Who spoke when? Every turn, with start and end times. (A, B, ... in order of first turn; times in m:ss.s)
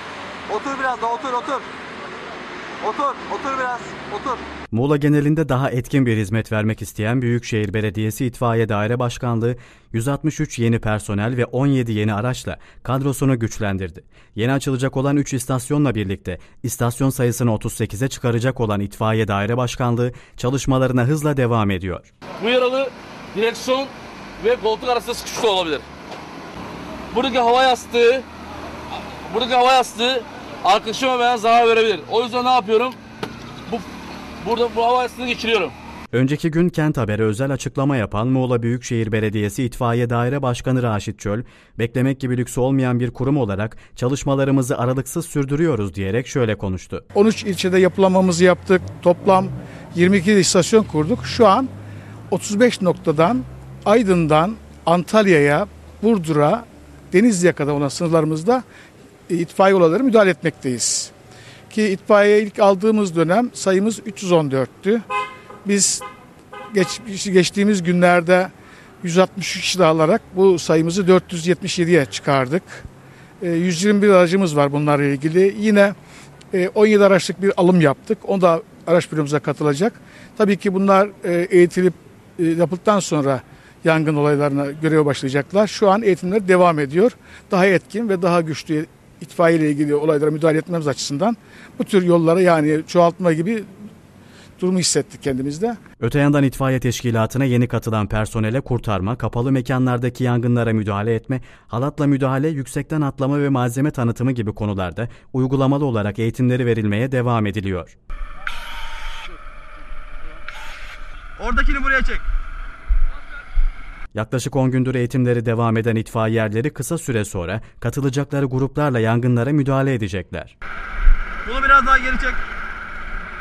0:00.5-0:01.7 A
0:02.8-0:04.4 A
0:04.7-0:22.1 B
0:22.4-0:25.8 C
0:27.1-0:28.3 C
0:29.3-0:33.0 C
0:34.4-0:35.8 C
0:36.1-0:47.0 B
0:47.1-0:51.7 D
0:52.3-0:58.6 D
0:59.3-1:01.1 D
1:01.7-1:05.0 D
1:05.6-1:06.0 D
1:06.7-1:12.8 D
1:13.4-1:16.0 D
1:16.5-1:33.7 D
1:34.6-1:35.8 D
1:36.0-1:48.0 B
1:51.4-1:52.2 A
1:54.2-2:00.5 B
2:01.5-2:02.4 A